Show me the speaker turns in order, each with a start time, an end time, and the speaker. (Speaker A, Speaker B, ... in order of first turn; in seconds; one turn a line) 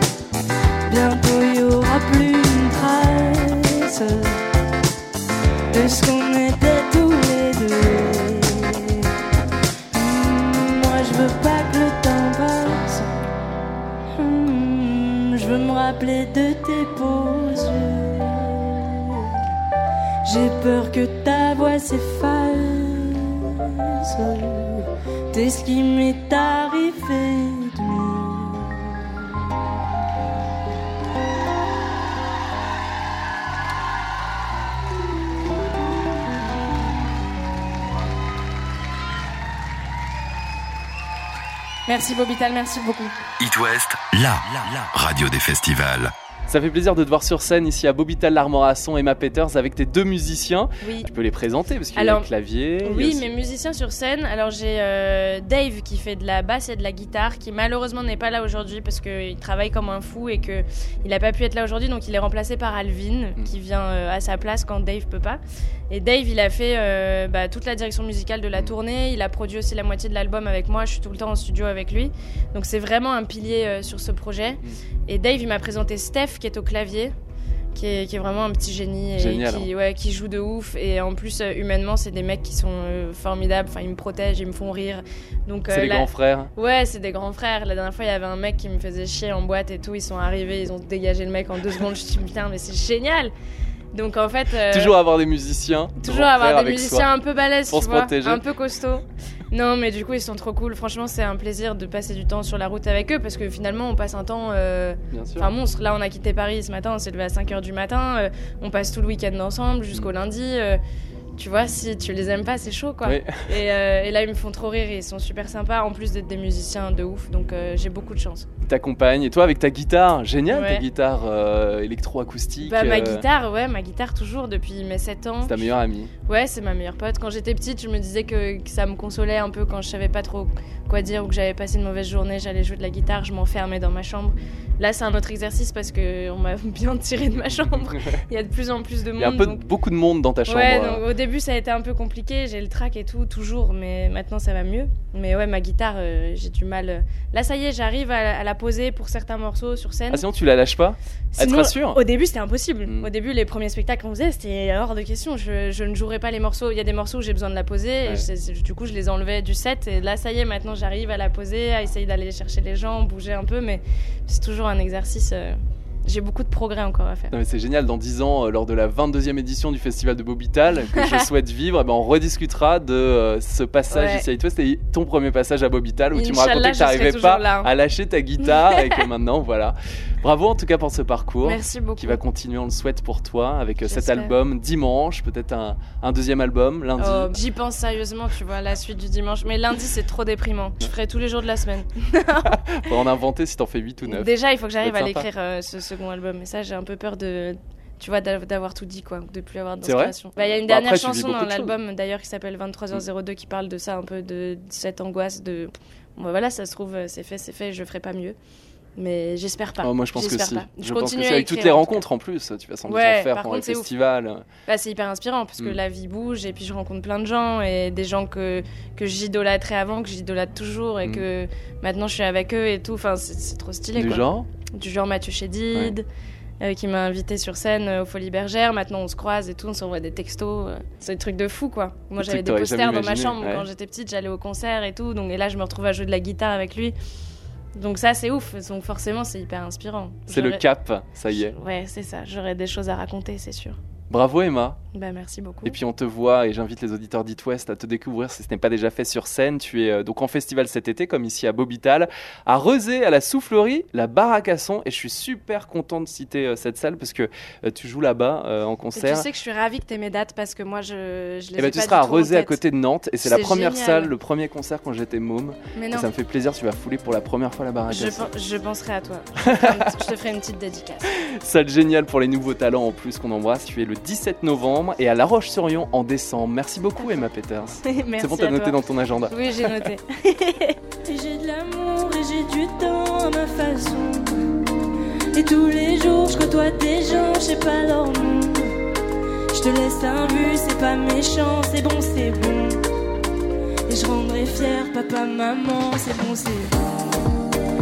Speaker A: 0.8-4.4
Speaker A: 5.7-9.1
Speaker A: 9.9-13.1
Speaker A: 14.2-19.4
Speaker A: 20.2-29.1
Speaker B: 41.9-43.1
Speaker C: 43.4-46.1
Speaker D: 46.5-53.3
Speaker B: 50.8-51.1
Speaker B: 52.0-52.3
Speaker B: 52.8-77.1
Speaker B: 77.7-93.3
Speaker D: 79.2-79.7
Speaker D: 85.7-86.5
Speaker B: 93.9-94.9
Speaker D: 94.7-97.1
Speaker B: 96.0-110.8
Speaker D: 97.7-98.4
Speaker D: 105.1-105.5
Speaker B: 111.4-118.5
Speaker D: 113.0-113.5
Speaker D: 118.6-123.3
Speaker B: 120.5-120.8
Speaker B: 122.6-125.7
Speaker D: 125.4-126.1
Speaker B: 126.3-139.6
Speaker D: 139.2-141.0
Speaker B: 140.5-150.2
Speaker D: 150.1-152.0
Speaker B: 151.3-167.3
Speaker D: 167.3-187.4
Speaker B: 173.9-174.3
Speaker B: 176.1-177.7
Speaker B: 178.4-179.0
Speaker B: 181.4-182.2
Speaker B: 183.8-184.3
Speaker B: 187.0-192.6
Speaker D: 192.4-194.3
Speaker B: 194.1-208.4
Speaker D: 194.8-195.3
Speaker D: 199.8-201.8
Speaker B: 209.0-212.0
Speaker D: 209.8-214.5
Speaker B: 212.9-213.9
Speaker B: 214.7-226.1
Speaker D: 223.9-224.5
Speaker B: 226.6-236.9
Speaker D: 232.2-233.7
Speaker B: 237.8-240.6
Speaker D: 240.3-241.6
Speaker B: 241.3-243.8
Speaker D: 244.1-244.8
Speaker B: 244.9-245.7
Speaker D: 245.6-259.2
Speaker B: 258.9-262.6
Speaker D: 261.6-268.3
Speaker B: 263.2-264.1
Speaker B: 265.8-266.1
Speaker B: 267.9-271.1
Speaker D: 269.4-269.9
Speaker D: 271.1-279.9
Speaker B: 277.8-278.8
Speaker B: 279.3-280.8
Speaker A: 281.0-284.4
Speaker A: 285.3-288.7
Speaker A: 289.5-292.8
Speaker A: 293.9-296.8